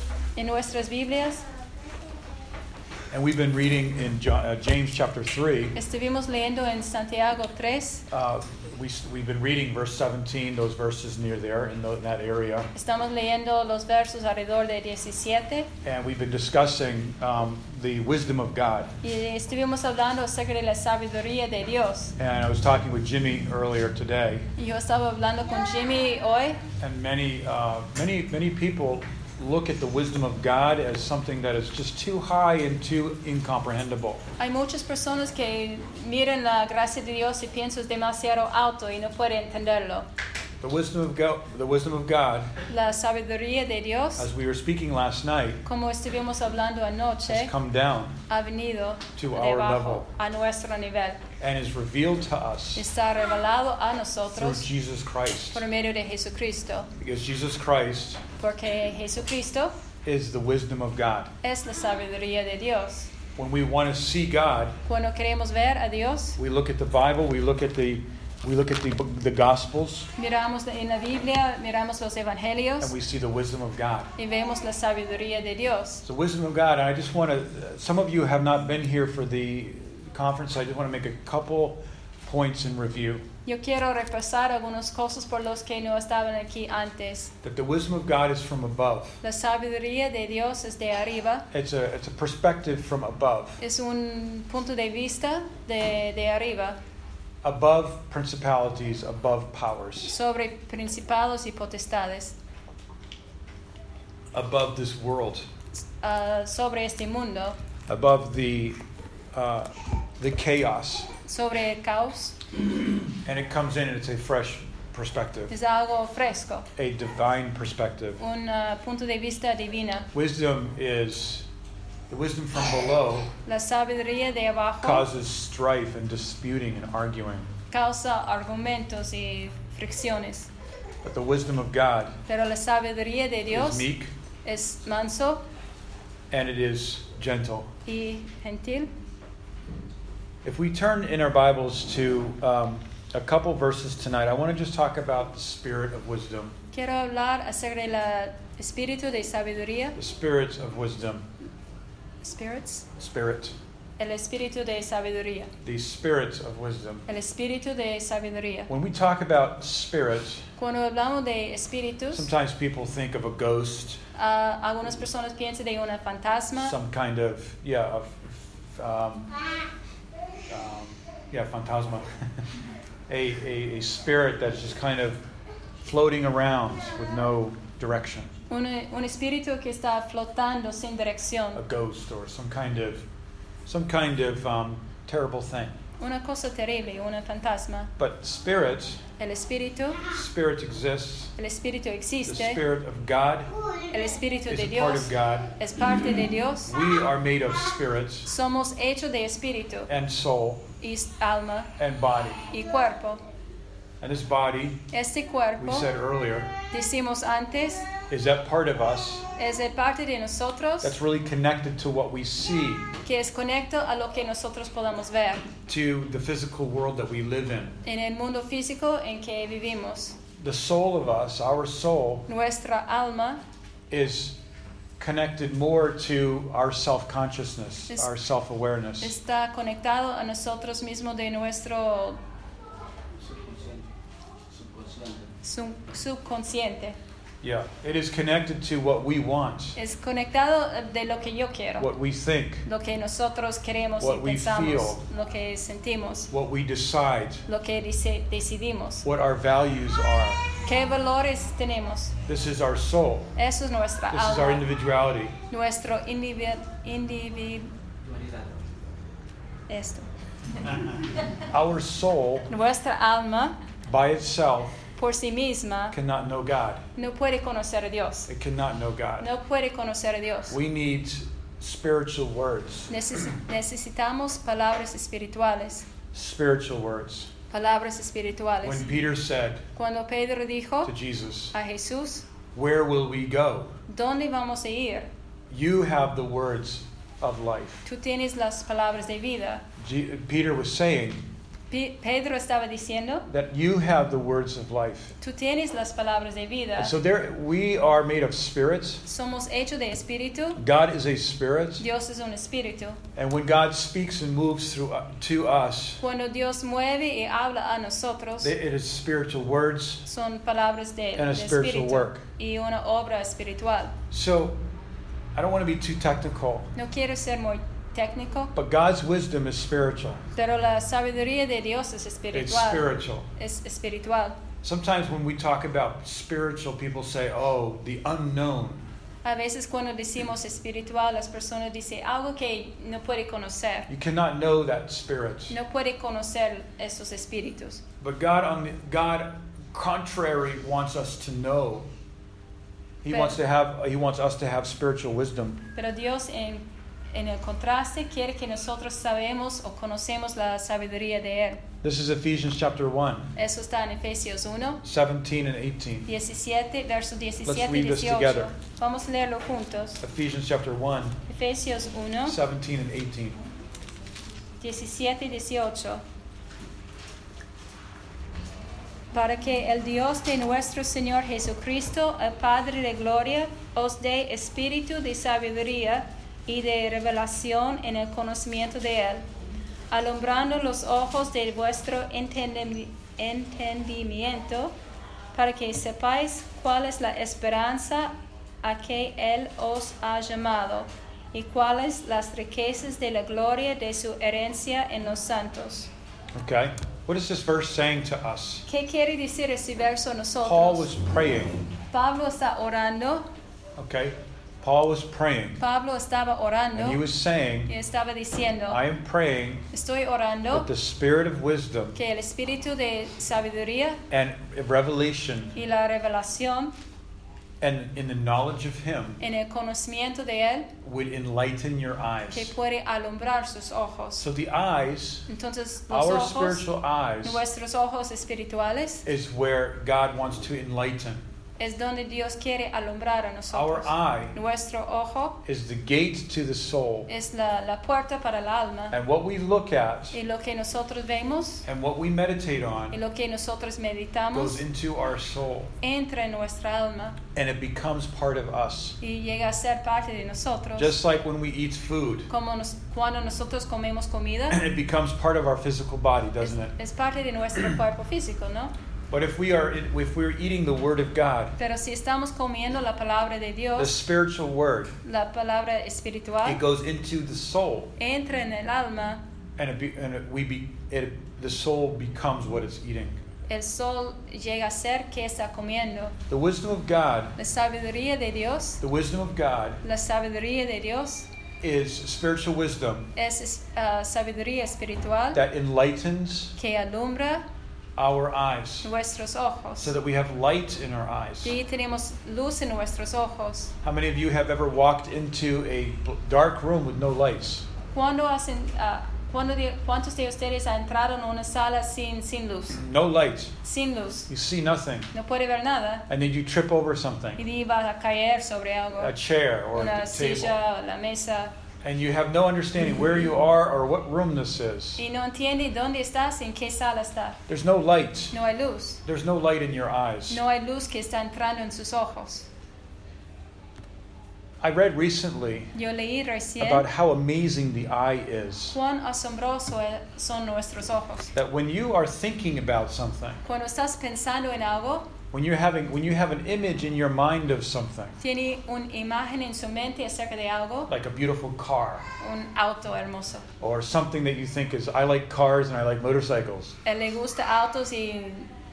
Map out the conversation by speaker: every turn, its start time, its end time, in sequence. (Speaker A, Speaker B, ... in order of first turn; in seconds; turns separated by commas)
Speaker A: 0.3-1.5, Speaker B: 3.1-5.8, Speaker A: 5.8-8.1, Speaker B: 8.1-12.7, Speaker A: 12.7-15.7, Speaker B: 15.8-18.9, Speaker A: 19.0-22.1, Speaker B: 22.2-24.5, Speaker A: 24.6-26.6, Speaker B: 26.8-34.2, Speaker A: 34.4-40.1, Speaker B: 40.6-42.6, Speaker A: 42.7-44.3, Speaker B: 44.2-45.6, Speaker A: 45.6-47.5, Speaker B: 47.3-48.2, Speaker A: 48.3-51.2, Speaker B: 49.1-50.1, Speaker B: 51.4-52.9, Speaker A: 52.8-54.7, Speaker B: 54.3-55.6, Speaker A: 55.5-56.9, Speaker B: 57.0-58.2, Speaker A: 58.4-59.8, Speaker B: 60.0-61.3, Speaker A: 61.4-63.1, Speaker B: 63.4-64.8, Speaker A: 64.8-66.4, Speaker B: 66.4-70.1, Speaker A: 70.2-73.0, Speaker B: 72.8-74.1, Speaker A: 74.2-76.0, Speaker B: 76.0-83.2, Speaker A: 83.5-87.3, Speaker B: 87.4-89.2, Speaker A: 89.2-91.5, Speaker B: 91.5-93.6, Speaker A: 93.6-96.8, Speaker B: 97.4-100.1, Speaker A: 100.0-102.4, Speaker B: 104.3-105.5, Speaker A: 105.8-107.6, Speaker B: 107.9-108.8, Speaker B: 109.3-111.1, Speaker A: 111.2-112.5, Speaker B: 113.2-115.5, Speaker A: 115.5-116.7, Speaker B: 116.8-118.2, Speaker A: 118.2-120.1, Speaker B: 120.1-121.5, Speaker B: 122.1-123.3, Speaker A: 123.5-125.1, Speaker B: 124.8-127.5, Speaker A: 127.7-130.5, Speaker B: 131.0-132.2, Speaker A: 132.3-133.9, Speaker B: 133.5-134.1, Speaker A: 134.4-135.4, Speaker B: 136.3-137.7, Speaker A: 137.9-138.9, Speaker B: 140.4-146.6, Speaker A: 146.7-150.0, Speaker B: 150.0-151.3, Speaker A: 152.2-152.9, Speaker B: 153.0-153.6, Speaker A: 154.0-155.5, Speaker B: 155.6-157.1, Speaker A: 157.1-158.7, Speaker B: 158.7-160.5, Speaker A: 160.6-162.3, Speaker B: 162.1-164.0, Speaker A: 164.2-166.8, Speaker B: 166.6-169.3, Speaker B: 170.5-172.1, Speaker B: 173.1-175.2, Speaker B: 175.8-178.3, Speaker A: 178.5-181.6, Speaker B: 181.5-183.1, Speaker B: 183.7-185.8, Speaker A: 186.0-187.9, Speaker B: 188.0-189.1, Speaker A: 189.2-190.0, Speaker B: 190.1-191.3, Speaker A: 191.4-192.6, Speaker B: 192.2-193.5, Speaker A: 193.9-196.7, Speaker B: 194.5-195.5, Speaker B: 196.7-198.3, Speaker A: 198.3-199.9, Speaker B: 199.9-200.7, Speaker A: 200.8-201.7, Speaker B: 201.8-202.5, Speaker A: 202.5-203.2, Speaker B: 204.0-204.9, Speaker A: 204.9-205.9, Speaker B: 205.6-206.5, Speaker A: 206.7-207.9, Speaker B: 208.1-209.3, Speaker A: 209.3-211.0, Speaker B: 210.8-212.9, Speaker A: 213.0-215.5, Speaker B: 215.7-217.8, Speaker A: 217.8-220.2, Speaker B: 220.4-222.3, Speaker A: 222.3-223.4, Speaker B: 223.9-224.4, Speaker B: 225.0-229.1, Speaker A: 229.0-232.2, Speaker C: 233.2-233.9, Speaker C: 234.5-235.3, Speaker A: 235.4-237.0, Speaker B: 237.4-239.8, Speaker A: 239.8-241.9, Speaker B: 241.8-242.7, Speaker A: 242.7-246.3, Speaker B: 244.0-245.0, Speaker B: 246.3-247.4, Speaker A: 247.5-249.1, Speaker B: 249.0-250.4, Speaker A: 250.7-252.2, Speaker B: 252.3-253.3, Speaker A: 253.4-254.7, Speaker B: 254.1-255.4, Speaker A: 255.5-257.7, Speaker C: 258.0-258.6, Speaker A: 259.7-260.1, Speaker B: 261.5-262.5, Speaker A: 262.5-263.6, Speaker B: 263.9-264.8, Speaker A: 265.0-266.0, Speaker B: 265.9-266.8, Speaker A: 267.0-268.3, Speaker B: 268.3-269.3, Speaker A: 269.2-270.6, Speaker B: 270.5-272.9, Speaker A: 272.9-275.9, Speaker B: 276.1-277.3, Speaker A: 277.5-278.9, Speaker B: 278.6-279.7, Speaker A: 279.8-280.9, Speaker B: 280.8-281.6, Speaker A: 281.5-282.3, Speaker B: 282.5-283.8, Speaker A: 283.9-285.1, Speaker B: 285.5-287.9, Speaker A: 287.9-289.6, Speaker B: 289.8-291.2, Speaker A: 291.7-293.3, Speaker B: 293.3-295.1, Speaker A: 295.2-296.9, Speaker B: 296.8-299.0, Speaker A: 299.1-300.6, Speaker B: 300.6-301.9, Speaker A: 301.8-303.0, Speaker B: 303.1-306.0, Speaker A: 306.0-308.5, Speaker B: 308.4-310.1, Speaker A: 310.1-314.0, Speaker B: 311.2-312.2, Speaker B: 314.1-314.6, Speaker B: 315.4-316.7, Speaker A: 316.8-318.5, Speaker B: 318.5-320.3, Speaker A: 320.3-324.4, Speaker B: 322.3-323.3, Speaker B: 324.6-328.8, Speaker A: 329.2-333.9, Speaker B: 333.9-335.6, Speaker A: 335.5-337.8, Speaker B: 338.0-341.9, Speaker B: 343.0-345.6, Speaker A: 343.1-343.4, Speaker A: 345.8-351.6, Speaker B: 351.8-353.3, Speaker A: 353.4-354.8, Speaker B: 354.8-356.1, Speaker A: 356.1-360.0, Speaker B: 357.4-358.5, Speaker B: 360.0-361.2, Speaker A: 361.3-362.4, Speaker B: 362.3-363.4, Speaker A: 364.6-366.0, Speaker A: 369.1-379.2, Speaker A: 379.9-384.7, Speaker A: 385.3-395.9, Speaker B: 396.4-398.6, Speaker A: 398.7-400.9, Speaker B: 400.4-401.6, Speaker A: 401.9-403.3, Speaker B: 403.8-405.6, Speaker A: 405.6-407.1, Speaker B: 406.8-407.7, Speaker A: 407.7-408.8, Speaker B: 408.7-409.7, Speaker A: 409.7-410.7, Speaker B: 410.5-412.0, Speaker A: 411.9-414.0, Speaker B: 414.1-415.6, Speaker A: 415.6-416.8, Speaker B: 417.6-419.2, Speaker A: 419.2-420.7, Speaker B: 420.8-422.5, Speaker A: 422.3-424.3, Speaker B: 424.2-425.3, Speaker A: 425.3-426.7, Speaker B: 425.9-427.4, Speaker A: 427.2-429.1, Speaker B: 429.1-431.2, Speaker A: 431.6-435.4, Speaker B: 433.5-434.4, Speaker B: 435.4-437.1, Speaker A: 437.1-439.0, Speaker B: 438.9-440.2, Speaker A: 440.1-441.6, Speaker B: 441.6-443.0, Speaker A: 442.9-444.6, Speaker B: 444.3-445.7, Speaker A: 445.8-447.2, Speaker B: 447.3-449.0, Speaker A: 449.0-451.0, Speaker B: 450.8-452.3, Speaker A: 452.3-454.6, Speaker B: 454.5-456.7, Speaker A: 456.4-458.7, Speaker B: 459.1-461.6, Speaker A: 461.6-463.9, Speaker B: 463.8-464.9, Speaker A: 465.0-466.6, Speaker B: 466.4-467.9, Speaker A: 468.0-469.2, Speaker B: 469.6-473.2, Speaker A: 473.5-476.2, Speaker B: 476.3-477.4, Speaker A: 477.4-478.8, Speaker B: 478.8-479.8, Speaker A: 479.8-481.3, Speaker B: 481.6-483.1, Speaker A: 483.1-485.4, Speaker B: 485.3-486.6, Speaker A: 486.6-487.4, Speaker B: 488.0-488.9, Speaker A: 488.8-489.9, Speaker B: 489.8-491.6, Speaker A: 491.4-493.7, Speaker B: 493.8-497.7, Speaker A: 497.9-502.8, Speaker B: 502.7-503.6, Speaker A: 503.6-504.3, Speaker B: 504.3-505.1, Speaker A: 505.1-506.1, Speaker B: 506.1-507.4, Speaker A: 507.4-509.1, Speaker B: 509.0-510.6, Speaker A: 509.7-511.5, Speaker B: 511.8-515.0, Speaker A: 515.0-517.4, Speaker B: 517.5-518.4, Speaker A: 518.3-519.0, Speaker B: 519.0-520.4, Speaker A: 520.3-522.5, Speaker B: 524.6-525.7, Speaker A: 525.7-526.9, Speaker B: 526.6-528.8, Speaker A: 528.7-531.3, Speaker B: 531.4-533.4, Speaker A: 533.5-535.1, Speaker B: 535.3-538.2, Speaker A: 538.2-540.9, Speaker B: 540.9-542.1, Speaker A: 542.2-543.5, Speaker B: 543.6-546.8, Speaker A: 546.9-548.5